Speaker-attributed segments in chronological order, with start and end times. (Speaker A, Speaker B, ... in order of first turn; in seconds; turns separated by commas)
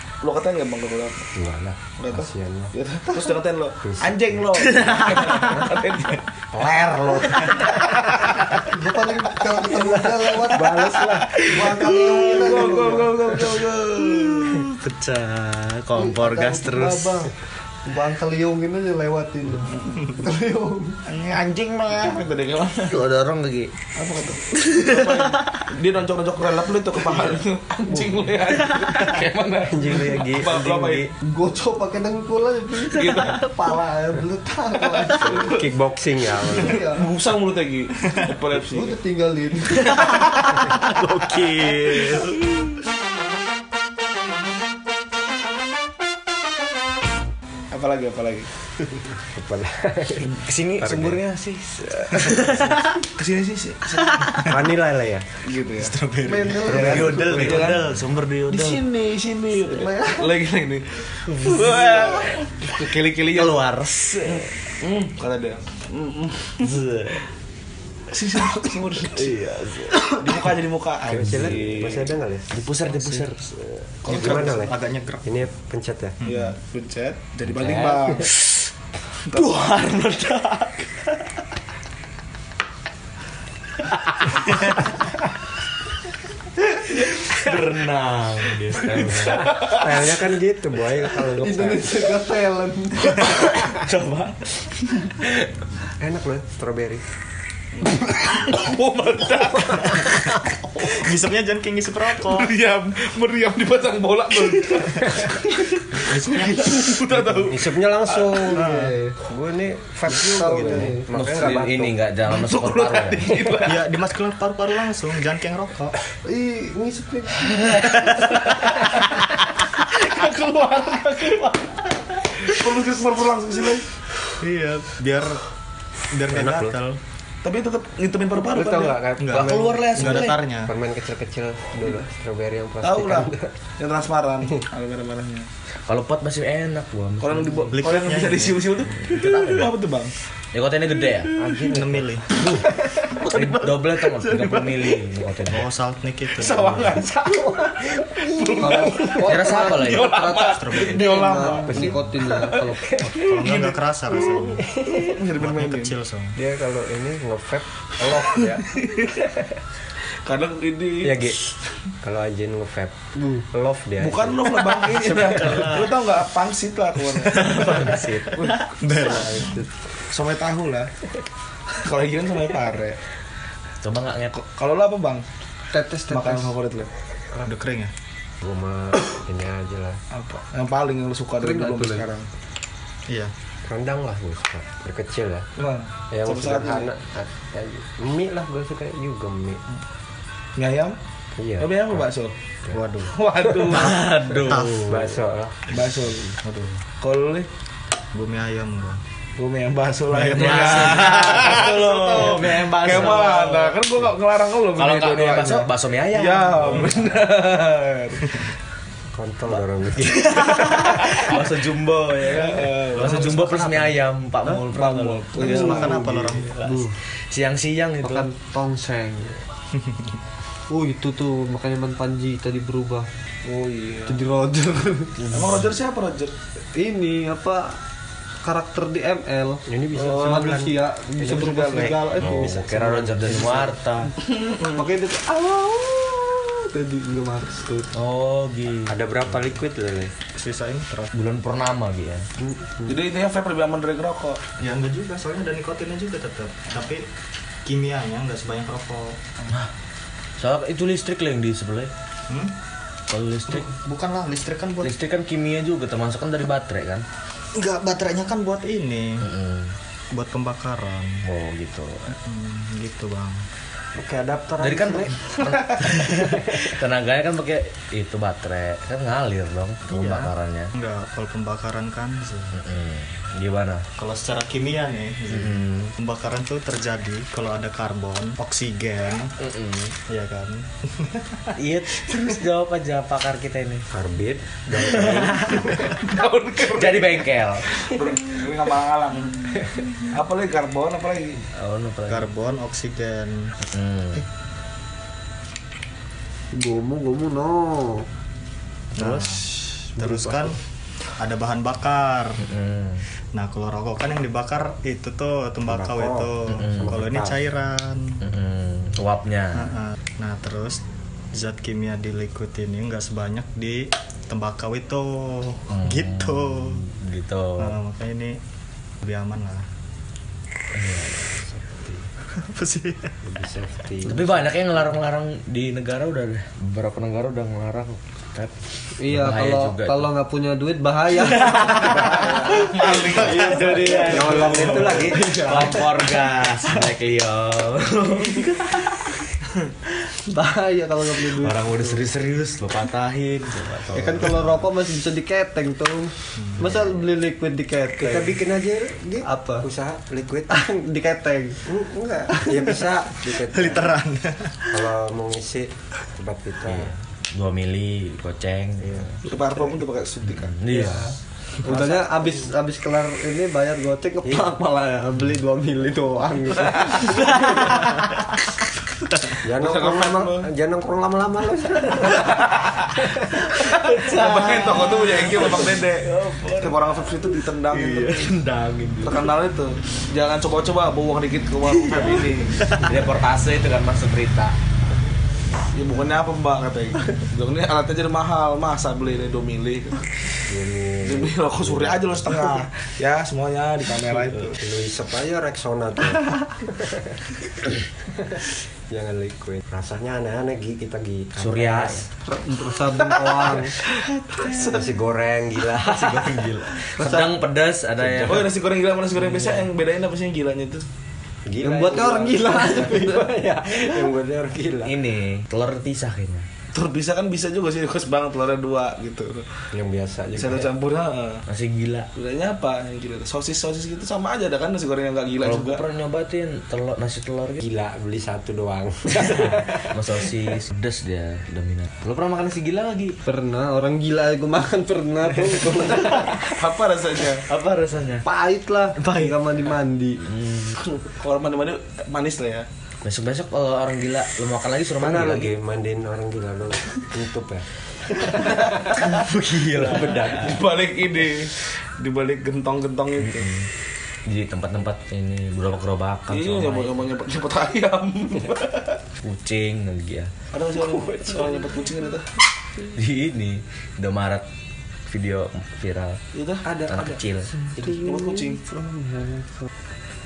Speaker A: 0.2-1.3, Speaker B: 1.3-2.7, Speaker A: 2.0-6.2, Speaker B: 3.8-4.7, Speaker C: 4.5-5.8, Speaker B: 6.5-7.6, Speaker C: 6.6-7.9, Speaker A: 7.3-8.5, Speaker D: 8.7-13.1, Speaker B: 10.5-11.4, Speaker C: 10.6-12.4, Speaker A: 10.7-14.6, Speaker C: 14.1-17.3, Speaker D: 15.9-17.3, Speaker D: 17.8-21.0, Speaker A: 21.1-23.0, Speaker C: 21.4-22.2, Speaker C: 22.9-23.7, Speaker A: 23.9-31.1, Speaker C: 24.6-25.5, Speaker C: 28.7-29.1, Speaker B: 29.7-31.0, Speaker C: 30.4-30.9, Speaker D: 31.2-35.6, Speaker A: 32.9-33.4, Speaker A: 34.8-35.6, Speaker B: 35.2-36.8, Speaker D: 36.5-37.1, Speaker A: 36.5-39.0, Speaker D: 38.7-40.6, Speaker C: 39.8-42.7, Speaker A: 47.7-48.5, Speaker B: 49.2-51.2, Speaker C: 50.3-53.0, Speaker A: 53.1-54.3, Speaker C: 54.1-54.4, Speaker B: 54.4-55.2, Speaker A: 55.4-56.0, Speaker E: 55.8-57.0, Speaker D: 56.2-57.8, Speaker C: 56.6-58.8, Speaker A: 56.7-57.8, Speaker A: 58.5-63.6, Speaker D: 59.6-60.3, Speaker C: 61.3-62.4, Speaker C: 63.3-64.5, Speaker A: 64.2-66.8, Speaker C: 66.6-67.2, Speaker A: 68.1-69.4, Speaker C: 69.0-70.2, Speaker A: 70.0-72.1, Speaker B: 71.0-72.6, Speaker C: 72.5-74.0, Speaker A: 74.0-74.5, Speaker E: 74.0-75.4, Speaker B: 74.1-76.2, Speaker E: 76.2-76.5, Speaker A: 76.2-78.3, Speaker C: 77.5-78.7, Speaker A: 79.3-79.5, Speaker C: 79.3-81.2, Speaker C: 84.2-85.0, Speaker C: 86.9-89.5, Speaker A: 89.1-89.9, Speaker B: 89.4-92.1, Speaker D: 91.3-93.5, Speaker C: 93.0-95.3, Speaker B: 96.0-97.0, Speaker A: 97.8-100.3, Speaker E: 100.8-102.5, Speaker A: 102.2-108.3, Speaker E: 105.9-107.1, Speaker B: 107.3-108.7, Speaker D: 108.0-109.2, Speaker E: 108.5-108.9, Speaker B: 109.2-111.9, Speaker D: 110.0-111.1, Speaker C: 111.1-113.5, Speaker A: 112.3-113.8, Speaker E: 113.6-116.0, Speaker D: 116.2-118.3, Speaker C: 117.4-119.3, Speaker C: 119.9-121.9, Speaker A: 122.4-123.8, Speaker E: 124.4-125.4, Speaker E: 126.1-127.0, Speaker B: 126.3-126.8, Speaker A: 127.4-129.0, Speaker B: 128.4-133.5, Speaker E: 129.2-130.7, Speaker C: 129.3-130.4, Speaker A: 132.8-135.5, Speaker C: 135.9-137.7, Speaker A: 137.2-140.1, Speaker E: 137.7-138.7, Speaker C: 138.9-139.7, Speaker C: 140.5-141.3, Speaker B: 141.3-142.1, Speaker E: 141.6-142.3, Speaker A: 142.4-145.0, Speaker C: 143.2-145.7, Speaker E: 145.5-147.0, Speaker A: 146.4-153.8, Speaker B: 147.2-148.5, Speaker D: 148.5-153.1, Speaker C: 149.1-150.2, Speaker E: 150.4-151.3, Speaker B: 151.6-152.2, Speaker E: 153.0-154.8, Speaker A: 154.3-155.9, Speaker B: 154.6-155.1, Speaker E: 155.3-156.3, Speaker B: 156.3-158.7, Speaker A: 158.6-159.2, Speaker A: 160.2-161.3, Speaker B: 161.0-164.8, Speaker D: 163.2-163.4, Speaker A: 164.0-167.8, Speaker C: 165.2-165.7, Speaker C: 167.3-168.5, Speaker E: 167.3-169.6, Speaker B: 169.1-169.6, Speaker A: 170.1-170.9, Speaker A: 171.8-173.0, Speaker C: 173.8-174.3, Speaker A: 174.3-175.2, Speaker D: 175.7-176.5, Speaker A: 176.1-176.9, Speaker E: 177.4-177.9, Speaker B: 178.4-180.0, Speaker A: 180.1-182.3, Speaker D: 181.4-182.1, Speaker B: 183.6-185.5, Speaker A: 185.6-186.9, Speaker B: 186.1-189.6, Speaker A: 190.6-191.0, Speaker B: 191.3-191.9, Speaker A: 191.6-192.3, Speaker E: 192.7-193.1, Speaker A: 193.1-194.0, Speaker C: 193.7-195.0, Speaker E: 193.8-195.1, Speaker B: 194.8-195.6, Speaker A: 195.7-196.3, Speaker E: 196.4-196.8, Speaker A: 197.0-197.5, Speaker E: 198.1-199.0, Speaker A: 199.4-208.4, Speaker E: 200.3-201.6, Speaker C: 200.3-203.8, Speaker C: 204.7-207.0, Speaker B: 209.1-210.6, Speaker C: 209.9-218.3, Speaker A: 212.2-213.6, Speaker D: 214.7-217.0, Speaker A: 214.8-215.8, Speaker E: 215.3-216.6, Speaker D: 218.0-219.4, Speaker E: 219.7-220.2, Speaker D: 220.7-223.1, Speaker A: 223.4-224.2, Speaker D: 224.1-225.3, Speaker A: 225.3-226.3, Speaker D: 226.7-227.8, Speaker D: 228.4-233.7, Speaker B: 229.7-233.7, Speaker A: 229.9-230.6, Speaker A: 231.3-231.9, Speaker C: 232.0-234.1, Speaker A: 234.3-234.8, Speaker D: 234.6-237.9, Speaker C: 237.9-239.0, Speaker B: 238.8-240.1, Speaker E: 240.3-241.1, Speaker C: 241.1-242.2, Speaker A: 242.8-244.4, Speaker E: 244.6-247.1, Speaker E: 247.6-249.4, Speaker C: 250.4-251.9, Speaker E: 252.3-252.5, Speaker C: 253.1-253.7, Speaker E: 253.5-254.9, Speaker C: 254.8-257.0, Speaker E: 257.5-259.3, Speaker C: 259.2-259.7, Speaker E: 260.1-261.2, Speaker C: 261.2-262.1, Speaker E: 262.1-263.4, Speaker B: 263.9-265.2, Speaker C: 264.6-270.7, Speaker E: 269.9-272.6, Speaker C: 272.5-273.9, Speaker E: 274.0-279.3, Speaker C: 275.3-275.9, Speaker C: 279.4-279.9, Speaker E: 280.1-281.5, Speaker C: 281.6-283.9, Speaker B: 283.9-285.7, Speaker C: 284.7-285.8, Speaker A: 285.7-289.6, Speaker C: 286.6-287.9, Speaker A: 290.1-291.4, Speaker C: 291.5-292.3, Speaker E: 292.1-293.6, Speaker C: 293.7-294.2, Speaker D: 296.5-298.1, Speaker E: 298.9-300.6, Speaker E: 301.2-302.5, Speaker C: 302.4-303.1, Speaker E: 303.3-308.3, Speaker B: 305.7-307.4, Speaker C: 306.6-307.0, Speaker C: 308.2-309.7, Speaker E: 309.5-310.8, Speaker E: 311.3-316.9, Speaker C: 315.7-317.8, Speaker E: 317.6-318.4, Speaker E: 319.0-319.6, Speaker C: 320.7-321.3, Speaker B: 321.3-322.1, Speaker E: 322.4-323.1, Speaker B: 323.2-324.5, Speaker C: 324.0-330.1, Speaker D: 329.0-335.9, Speaker C: 331.1-339.1, Speaker A: 331.8-334.5, Speaker B: 334.0-335.8, Speaker D: 340.2-342.0, Speaker C: 341.2-344.5, Speaker D: 343.9-348.4, Speaker E: 346.4-346.7, Speaker B: 348.0-350.6, Speaker D: 349.2-349.7, Speaker D: 350.5-351.6, Speaker B: 351.6-353.9, Speaker D: 352.3-352.7, Speaker E: 353.5-354.8, Speaker B: 354.7-356.9, Speaker C: 356.7-359.1, Speaker B: 358.8-359.2, Speaker A: 359.2-360.6, Speaker C: 360.4-361.1, Speaker D: 360.7-368.1, Speaker B: 364.2-364.5, Speaker C: 367.1-368.0, Speaker B: 369.4-372.4, Speaker A: 369.6-370.5, Speaker C: 373.4-379.3, Speaker A: 373.7-378.3, Speaker A: 379.0-382.8, Speaker C: 381.7-384.5, Speaker A: 385.7-390.0, Speaker B: 390.4-392.4, Speaker A: 391.0-394.6, Speaker B: 394.6-402.1, Speaker C: 401.4-402.1, Speaker D: 402.2-403.8, Speaker A: 403.0-404.9, Speaker B: 404.5-406.7, Speaker C: 405.8-408.5, Speaker D: 406.9-407.3, Speaker B: 408.0-408.5, Speaker A: 408.2-410.9, Speaker B: 411.4-415.0, Speaker D: 411.6-413.8, Speaker C: 414.8-416.5, Speaker A: 416.7-419.5, Speaker B: 419.7-420.7, Speaker A: 420.3-421.4, Speaker C: 421.5-422.1, Speaker A: 422.1-425.8, Speaker C: 425.4-427.6, Speaker B: 427.6-429.9, Speaker C: 429.1-433.2, Speaker D: 433.2-436.5, Speaker A: 436.1-437.5, Speaker C: 437.4-438.3, Speaker D: 438.2-440.2, Speaker C: 438.9-439.4, Speaker C: 440.2-440.8, Speaker A: 441.0-442.7, Speaker C: 443.0-445.5, Speaker B: 445.0-447.7, Speaker A: 448.3-449.0, Speaker C: 448.8-450.6, Speaker A: 449.8-453.5, Speaker C: 453.3-453.7, Speaker C: 454.2-457.0, Speaker A: 456.3-459.0, Speaker C: 459.2-460.3, Speaker A: 460.5-462.3, Speaker D: 461.1-461.3, Speaker C: 462.9-464.4, Speaker C: 465.1-466.2, Speaker A: 466.3-466.7, Speaker D: 466.6-469.7, Speaker C: 466.9-467.5, Speaker A: 467.8-468.6